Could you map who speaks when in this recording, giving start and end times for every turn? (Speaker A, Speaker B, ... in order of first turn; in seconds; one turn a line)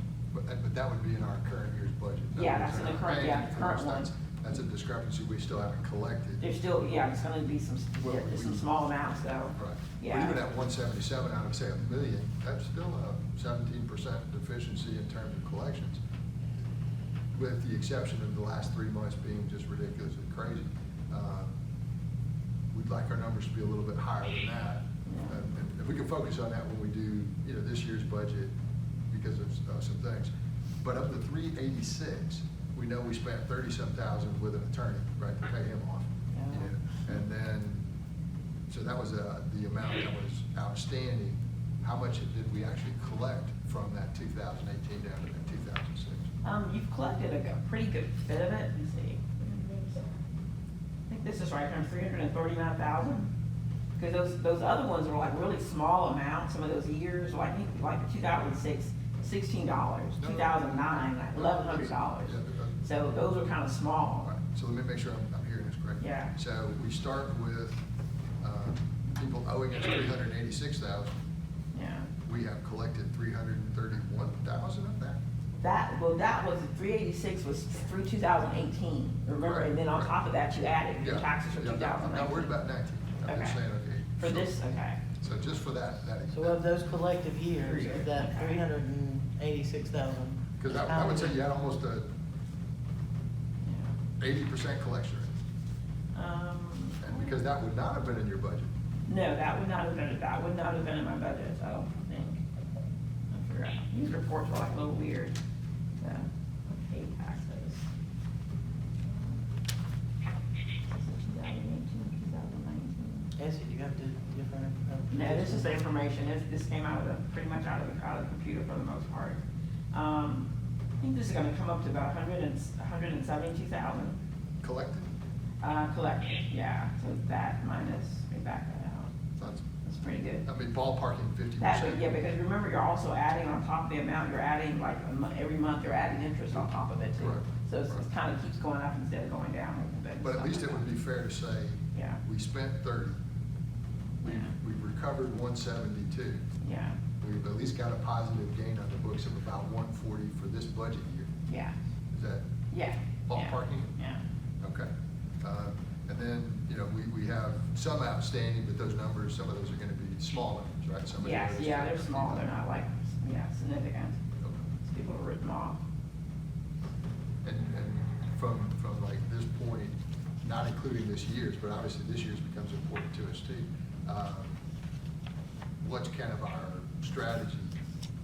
Speaker A: 0.3-6.4
Speaker B: 2.4-4.1
Speaker B: 6.4-10.4
Speaker A: 8.0-8.7
Speaker A: 9.6-16.0
Speaker A: 17.3-21.5
Speaker A: 22.7-28.5
Speaker B: 25.1-25.4
Speaker A: 29.1-37.9
Speaker B: 36.3-36.7
Speaker A: 38.7-46.3
Speaker B: 46.4-50.1
Speaker B: 51.1-53.3
Speaker B: 54.0-64.3
Speaker A: 60.2-62.8
Speaker A: 64.2-67.8
Speaker B: 66.0-66.3
Speaker A: 68.4-71.2
Speaker B: 71.7-72.1
Speaker A: 72.2-75.2
Speaker B: 75.6-82.6
Speaker A: 79.4-80.2
Speaker A: 81.0-84.5
Speaker B: 83.3-83.6
Speaker B: 84.2-85.0
Speaker A: 85.2-86.6
Speaker C: 86.3-91.3
Speaker B: 87.6-88.6
Speaker A: 90.6-92.1
Speaker B: 93.6-94.0
Speaker A: 94.2-95.3
Speaker B: 96.1-97.3
Speaker A: 97.0-98.7
Speaker B: 99.1-102.4
Speaker B: 103.3-105.4
Speaker B: 106.0-107.9
Speaker B: 109.0-109.4
Speaker B: 110.9-113.3
Speaker C: 113.4-115.8
Speaker B: 115.1-124.2
Speaker A: 124.6-125.1
Speaker B: 125.6-129.3
Speaker A: 129.4-129.7
Speaker B: 129.8-130.5
Speaker A: 130.4-132.1
Speaker B: 131.6-140.8
Speaker A: 137.2-138.0
Speaker A: 140.2-143.2
Speaker B: 141.9-142.2
Speaker A: 144.2-146.4
Speaker B: 144.2-144.5
Speaker B: 146.6-147.0
Speaker A: 147.2-151.3
Speaker B: 151.5-151.8
Speaker A: 152.1-152.5
Speaker B: 152.7-154.2
Speaker A: 153.3-153.9
Speaker A: 154.6-154.9
Speaker A: 155.4-162.5
Speaker B: 161.2-164.2
Speaker A: 164.4-164.7
Speaker B: 164.8-165.8
Speaker A: 167.4-174.6
Speaker A: 175.8-177.8